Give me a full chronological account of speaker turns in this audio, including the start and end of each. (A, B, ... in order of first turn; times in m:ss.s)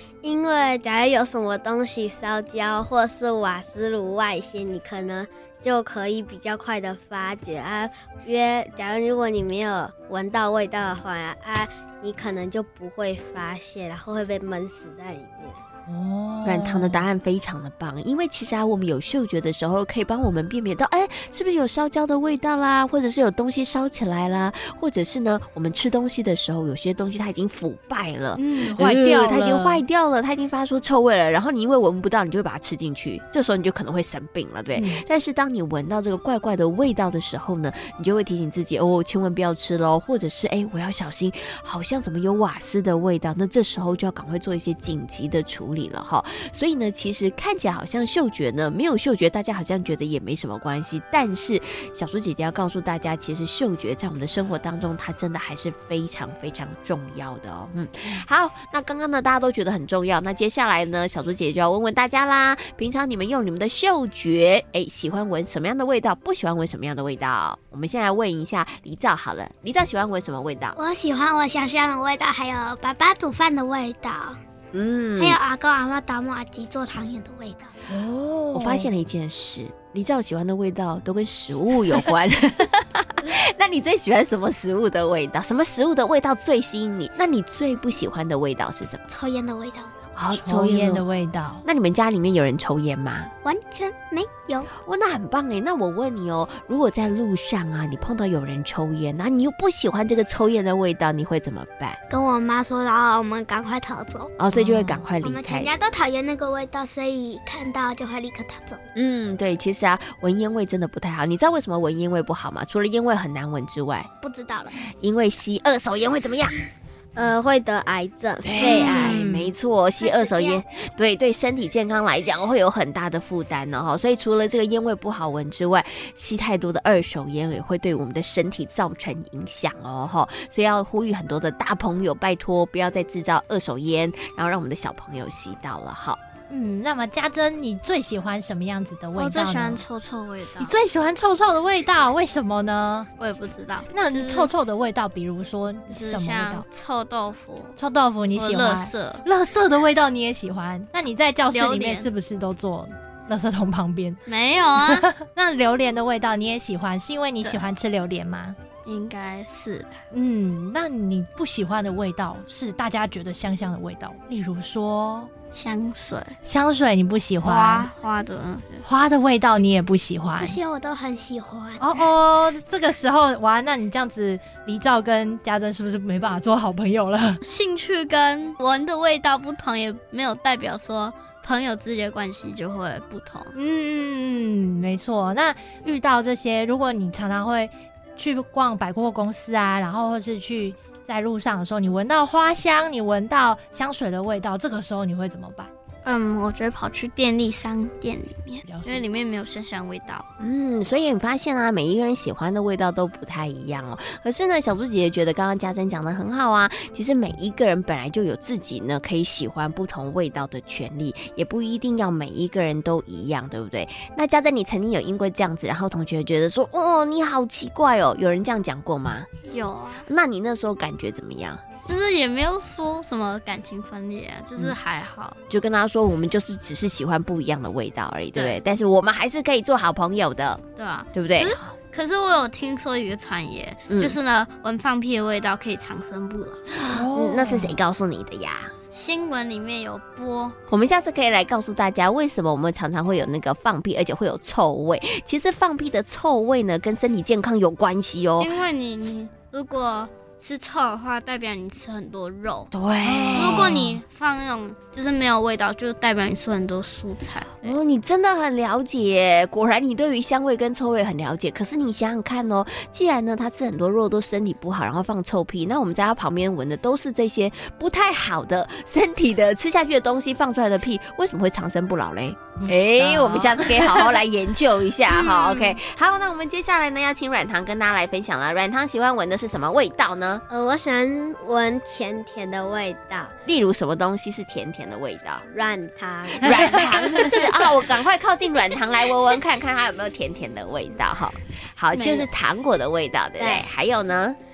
0:00.2-0:15.6 A
0:15.9-0:17.1 B
0:16.4-1:10.8 C
0:28.4-0:29.8 B
0:34.7-0:35.0 B
1:10.8-1:14.4 D
1:14.7-1:15.4 C
1:15.2-1:17.7 D
1:17.9-1:18.9 B
1:18.5-1:29.0 C
1:29.1-1:29.9 D
1:30.2-1:31.0 C
1:30.3-1:31.6 B
1:31.6-1:33.3 C
1:33.4-1:34.7 D
1:34.8-1:42.0 C
1:42.1-1:44.3 D
1:44.4-1:45.7 C
1:44.5-1:45.1 B
1:45.2-1:48.8 D
1:49.0-1:54.1 C
1:54.2-1:54.7 D
1:55.0-1:56.6 C
1:57.2-1:59.2 A
1:58.4-2:16.2 C
1:58.6-1:59.5 B
2:00.0-2:00.6 D
2:16.5-2:19.8 B
2:19.2-2:20.7 E
2:20.6-2:23.1 B
2:23.2-2:24.5 E
2:23.9-2:26.7 B
2:25.9-2:27.8 E
2:27.8-2:34.2 B
2:28.3-2:29.2 E
2:31.5-2:32.1 E
2:34.3-2:35.1 E
2:34.8-2:38.6 B
2:37.4-2:37.7 E
2:38.8-2:40.0 E
2:40.1-2:45.3 B
2:45.5-2:46.4 E
2:46.4-2:47.9 B
2:47.4-2:48.8 E
2:48.8-2:50.6 B
2:50.3-2:52.0 D
2:51.8-2:57.4 B
2:57.4-3:03.5 E
3:03.5-3:15.7 B
3:16.0-3:20.3 E
3:18.6-3:19.0 B
3:20.4-3:39.3 C
3:39.5-3:40.1 E
3:40.0-3:41.6 C
3:41.8-3:45.4 E
3:45.5-3:50.6 C
3:48.3-3:48.6 E
3:50.8-3:56.6 E
3:51.1-3:51.6 C
3:53.9-3:54.2 C
3:56.8-3:58.7 C
3:56.9-3:57.8 B
3:58.9-4:00.6 E
4:00.7-4:08.5 C
4:08.4-4:12.7 E
4:12.7-4:13.8 C
4:13.0-4:14.0 B
4:13.3-4:17.8 E
4:17.6-4:40.4 C
4:32.6-4:34.2 B
4:35.1-4:35.7 E
4:40.5-4:43.3 A
4:43.4-4:45.5 C
4:45.5-4:47.3 A
4:46.4-4:54.4 C
4:46.5-4:46.9 E
4:51.9-4:52.3 E
4:53.4-4:53.7 A